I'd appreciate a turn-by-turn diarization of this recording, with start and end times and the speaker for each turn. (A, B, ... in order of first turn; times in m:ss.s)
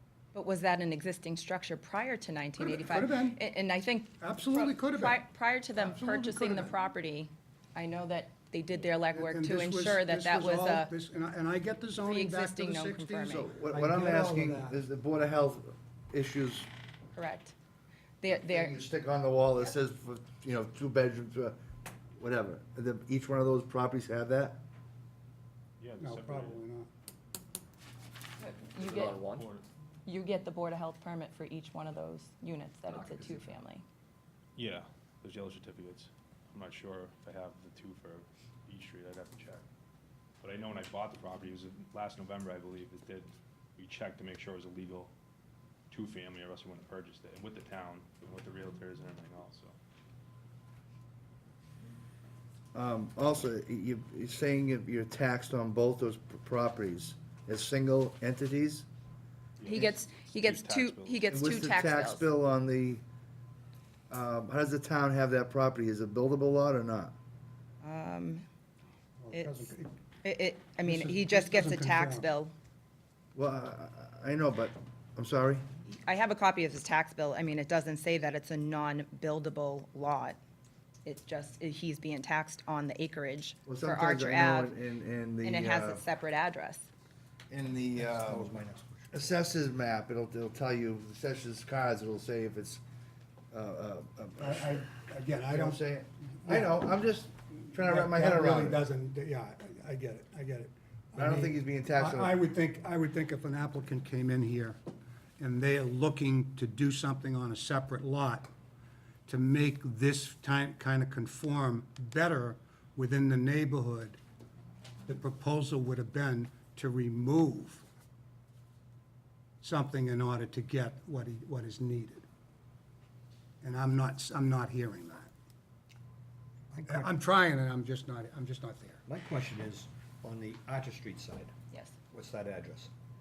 0:00.3-0:10.9 A
0:02.6-0:03.4 B
0:04.2-0:05.2 B
0:05.8-0:06.8 B
0:09.1-0:14.8 B
0:12.0-0:13.6 A
0:13.2-0:16.7 C
0:17.1-0:17.5 A
0:18.2-0:18.8 A
0:18.3-0:21.6 C
0:22.2-0:24.6 C
0:25.8-0:26.6 D
0:26.0-0:26.9 B
0:28.4-0:29.2 A
0:28.8-0:29.5 C
0:28.8-0:29.6 D
0:30.0-0:33.8 A
0:32.9-0:33.4 D
0:34.6-0:39.6 D
0:40.4-0:45.1 D
0:45.9-0:49.7 D
0:52.7-0:58.9 C
0:59.6-1:01.6 D
0:59.6-1:02.3 A
1:01.3-1:03.0 C
1:04.1-1:07.1 C
1:07.8-1:08.4 A
1:09.2-1:09.9 B
1:09.3-1:12.5 A
1:10.8-1:12.3 B
1:13.3-1:15.6 C
1:15.9-1:20.4 A
1:21.0-1:24.7 A
1:23.6-1:26.0 C
1:25.4-1:26.9 A
1:27.5-1:28.5 C
1:28.0-1:29.1 E
1:29.1-1:32.8 C
1:33.5-1:34.8 C
1:34.4-1:35.8 B
1:35.5-1:38.8 C
1:36.4-1:36.7 B
1:37.7-1:44.8 B
1:41.1-1:42.4 C
1:45.4-1:48.5 B
1:49.3-1:54.2 B
1:55.1-1:57.8 B
1:59.6-2:02.2 B
2:03.6-2:05.3 B
2:06.7-2:09.0 B
2:09.1-2:11.5 E
2:12.1-2:12.9 E